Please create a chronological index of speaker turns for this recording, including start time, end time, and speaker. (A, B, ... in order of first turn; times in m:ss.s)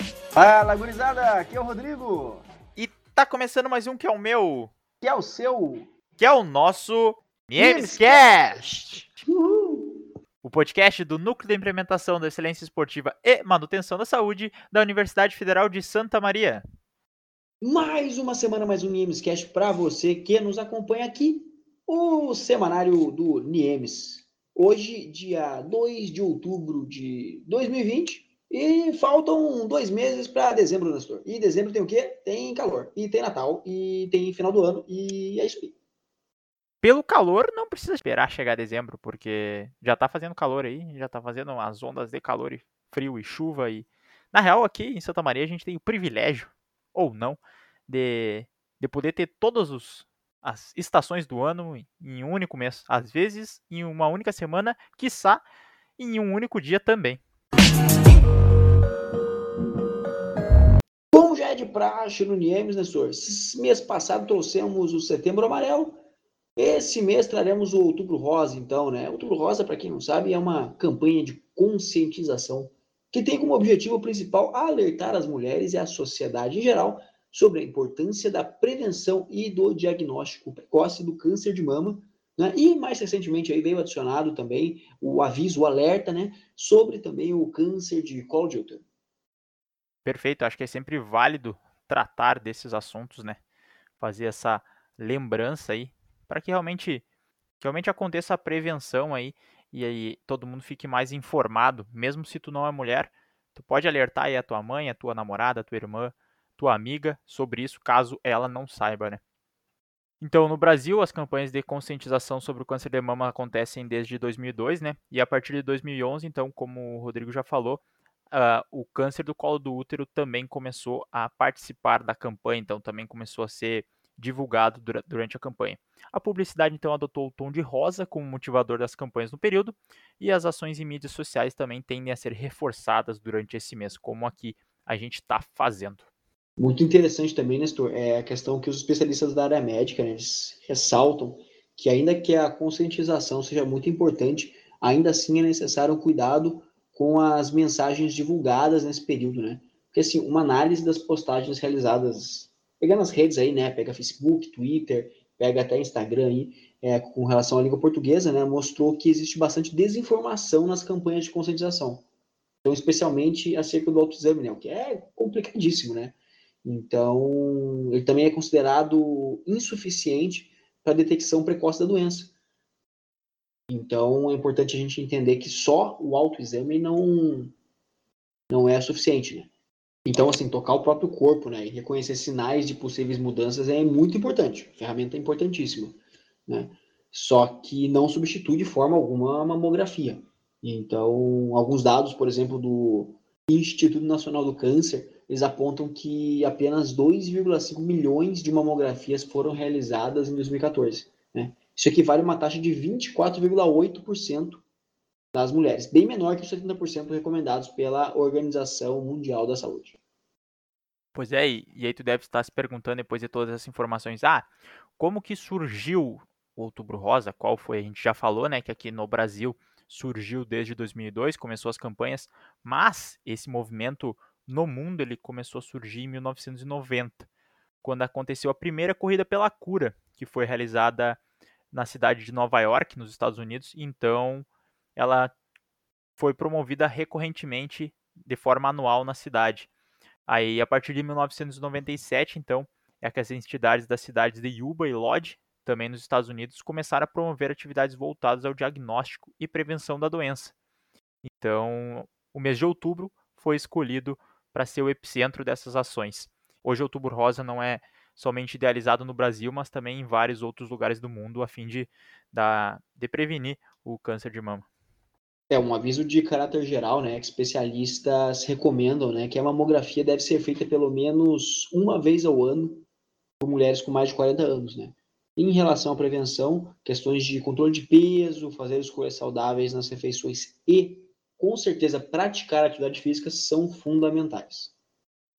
0:00.3-0:02.4 A
0:02.8-0:04.7 B
0:05.0-0:05.9 A
0:06.2-0:09.1 B
0:07.6-0:08.7 A
0:09.2-0:10.0 A
0:10.4-0:16.6 B
0:17.6-0:35.7 A
0:36.8-0:55.4 B
0:56.0-0:57.2 B
1:01.1-1:06.0 A
1:06.6-1:28.8 A
1:30.0-1:33.4 B
1:34.0-1:37.0 B
1:37.6-1:49.2 B
1:50.2-2:16.1 B
2:16.6-2:42.0 A
2:42.6-2:52.3 A
2:53.7-2:57.5 A
2:58.5-2:59.5 A
3:00.0-3:24.6 A
3:25.3-3:30.0 A
3:31.1-3:34.5 B
3:35.0-3:47.3 B
3:47.8-3:51.2 B
3:51.7-3:55.3 B
3:56.2-3:59.7 B
4:00.3-4:10.5 B
4:11.2-4:24.7 B
4:25.5-4:32.8 A
4:33.4-4:44.7 A